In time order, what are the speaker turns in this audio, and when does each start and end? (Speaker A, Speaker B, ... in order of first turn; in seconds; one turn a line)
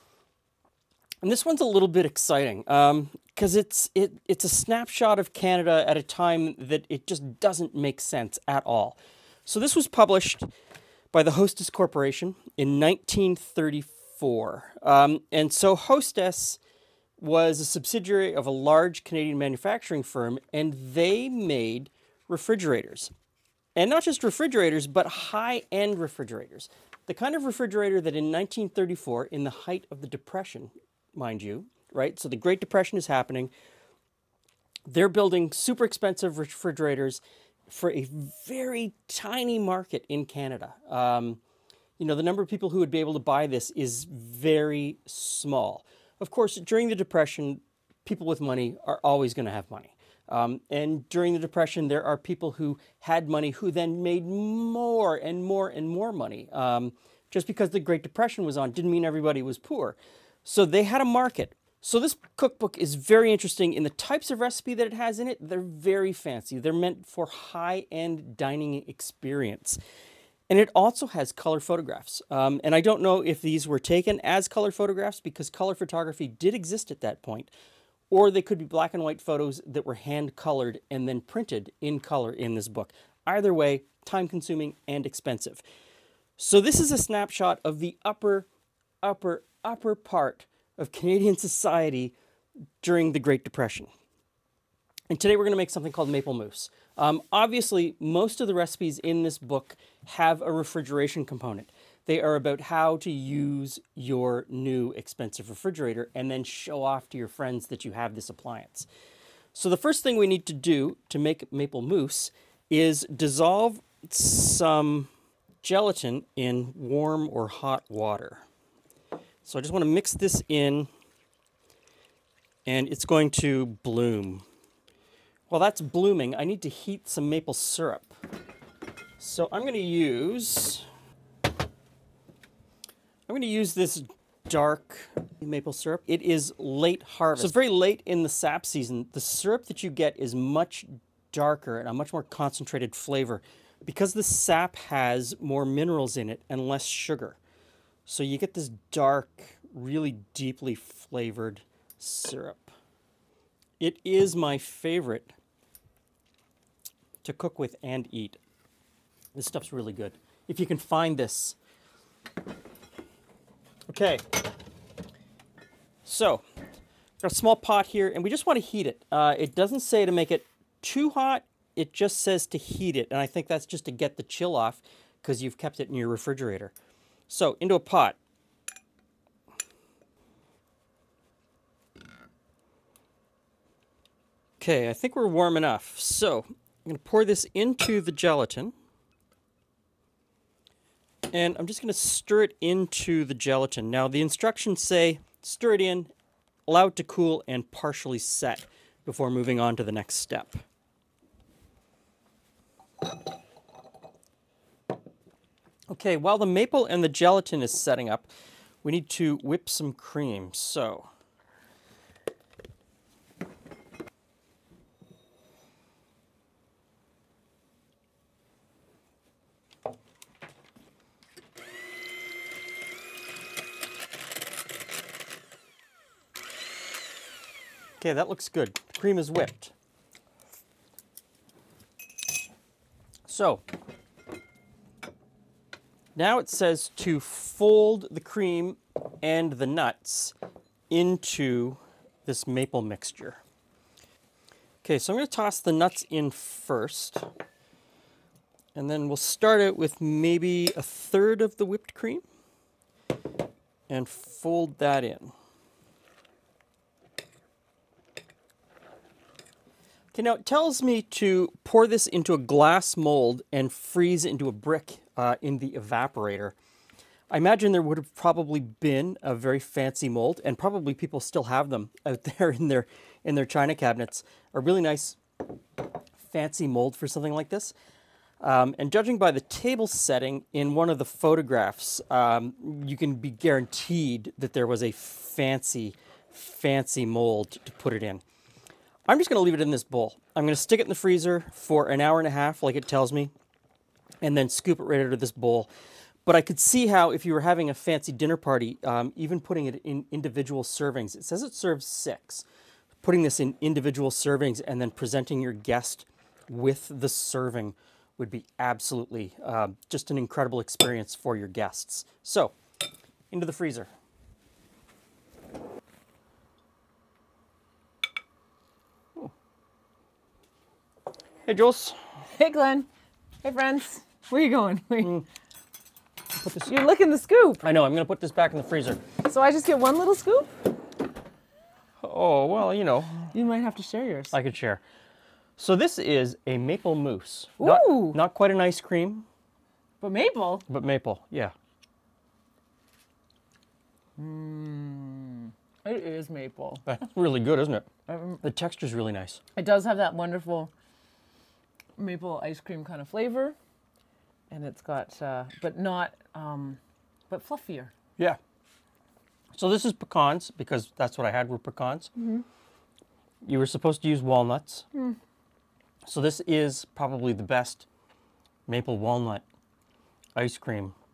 Speaker A: 1.2-10.5
Speaker A: 11.1-16.6
Speaker A: 17.2-23.1
Speaker A: 23.8-33.5
Speaker A: 34.9-41.4
Speaker A: 42.0-69.8
Speaker A: 70.5-77.5
Speaker A: 78.1-85.6
Speaker A: 86.4-88.5
Speaker A: 89.0-92.2
Speaker A: 92.8-93.9
Speaker A: 95.1-108.9
Speaker A: 109.5-115.1
Speaker A: 115.6-118.5
Speaker A: 119.4-120.9
Speaker A: 122.7-124.5
Speaker A: 125.5-128.1
Speaker A: 129.2-130.9
Speaker A: 133.3-147.4
Speaker A: 148.1-152.7
Speaker A: 153.8-155.3
Speaker A: 157.2-158.4
Speaker A: 159.3-161.6
Speaker A: 163.9-164.2
Speaker A: 166.1-166.4
Speaker A: 167.2-176.7
Speaker A: 177.3-178.2
Speaker A: 184.6-188.7
Speaker A: 191.3-196.1
Speaker A: 196.7-200.6
Speaker A: 205.9-208.3
Speaker A: 208.8-211.1
Speaker A: 228.0-229.7
Speaker A: 233.3-233.6
Speaker A: 236.2-240.3
Speaker A: 240.9-243.4
Speaker A: 244.8-247.3
Speaker A: 248.8-252.2
Speaker A: 253.9-255.3
Speaker A: 260.1-266.6
Speaker A: 267.3-275.2
Speaker A: 276.2-277.7
Speaker A: 278.4-288.2
Speaker A: 289.1-293.3
Speaker A: 294.2-295.7
Speaker A: 296.3-302.4
Speaker A: 303.0-312.5
Speaker A: 313.3-313.9
Speaker A: 321.5-322.0
Speaker B: 322.3-322.9
Speaker B: 323.4-325.2
Speaker A: 326.4-326.7
Speaker B: 326.7-327.7
Speaker A: 327.6-329.0
Speaker B: 329.2-330.5
Speaker A: 332.0-333.3
Speaker B: 333.3-334.4
Speaker A: 334.3-334.8
Speaker A: 335.6-339.3
Speaker B: 337.6-338.2
Speaker B: 340.0-340.7
Speaker A: 340.7-341.5
Speaker B: 344.2-346.9
Speaker A: 346.9-347.9
Speaker B: 348.1-348.4
Speaker A: 348.4-349.4
Speaker B: 349.6-350.7
Speaker B: 352.0-353.6
Speaker B: 354.5-357.9
Speaker A: 359.5-362.1
Speaker B: 362.2-362.4
Speaker A: 363.4-364.9
Speaker A: 366.1-367.9
Speaker A: 368.7-369.4
Speaker A: 370.4-370.9